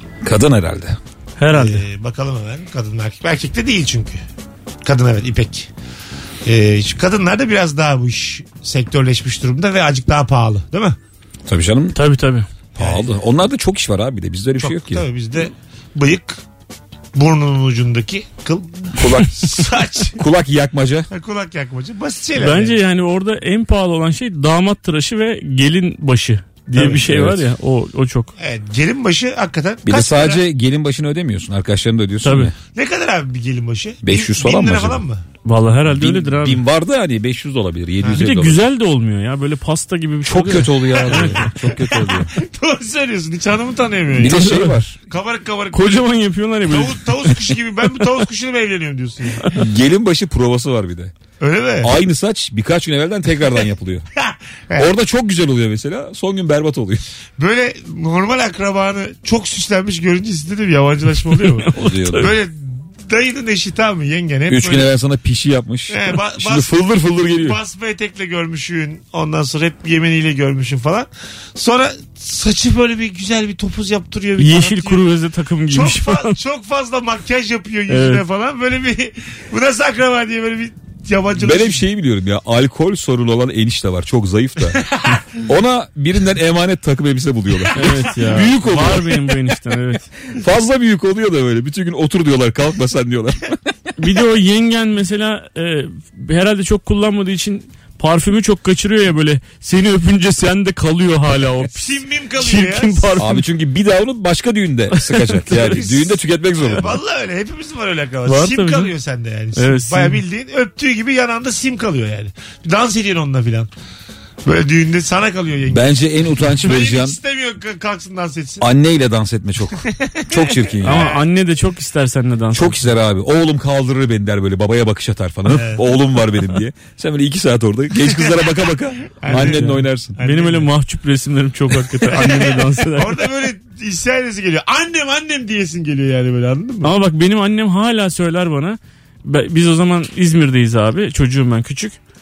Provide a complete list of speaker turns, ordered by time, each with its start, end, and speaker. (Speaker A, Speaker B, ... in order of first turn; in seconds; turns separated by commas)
Speaker A: 0.2-1.0, Speaker B: 1.4-1.8, Speaker C: 1.5-4.2, Speaker C: 4.8-5.7, Speaker C: 6.4-11.0, Speaker A: 11.5-12.0, Speaker B: 11.9-12.5, Speaker C: 12.7-13.1, Speaker A: 12.8-15.1, Speaker C: 14.6-16.4, Speaker C: 17.1-20.2, Speaker A: 19.0-19.6, Speaker A: 20.2-21.1, Speaker C: 21.1-22.8, Speaker B: 22.4-28.3, Speaker A: 26.7-27.4, Speaker C: 28.4-30.4, Speaker A: 29.8-32.5, Speaker B: 32.2-32.5, Speaker C: 32.7-35.2, Speaker A: 34.0-35.0, Speaker B: 35.4-36.6, Speaker A: 35.9-38.6, Speaker B: 38.1-41.5, Speaker A: 40.2-42.3, Speaker C: 41.2-44.5, Speaker A: 44.1-45.0, Speaker B: 44.3-44.8, Speaker C: 45.1-46.0, Speaker B: 45.7-47.5, Speaker C: 46.6-49.6, Speaker A: 49.5-51.1, Speaker C: 51.4-51.9, Speaker A: 51.8-54.0, Speaker C: 54.2-54.9, Speaker A: 54.8-57.0, Speaker C: 57.4-61.7, Speaker B: 61.3-62.3, Speaker A: 61.8-62.3, Speaker C: 62.2-64.9, Speaker A: 64.5-67.6, Speaker C: 65.9-75.0, Speaker B: 74.4-76.3, Speaker C: 75.7-81.8, Speaker B: 77.9-78.2, Speaker A: 81.4-89.2, Speaker B: 87.8-90.1, Speaker A: 90.3-93.6, Speaker B: 94.0-103.4, Speaker C: 101.7-103.2, Speaker A: 103.2-107.0, Speaker C: 105.5-113.7, Speaker B: 108.3-108.9, Speaker B: 109.5-110.2, Speaker C: 114.4-118.7, Speaker A: 115.7-117.2, Speaker A: 118.6-121.1, Speaker C: 119.9-121.2, Speaker B: 120.8-122.8, Speaker A: 122.5-130.2, Speaker C: 125.5-125.8, Speaker C: 128.1-130.7, Speaker B: 129.3-133.2, Speaker C: 132.1-136.9, Speaker B: 136.8-142.0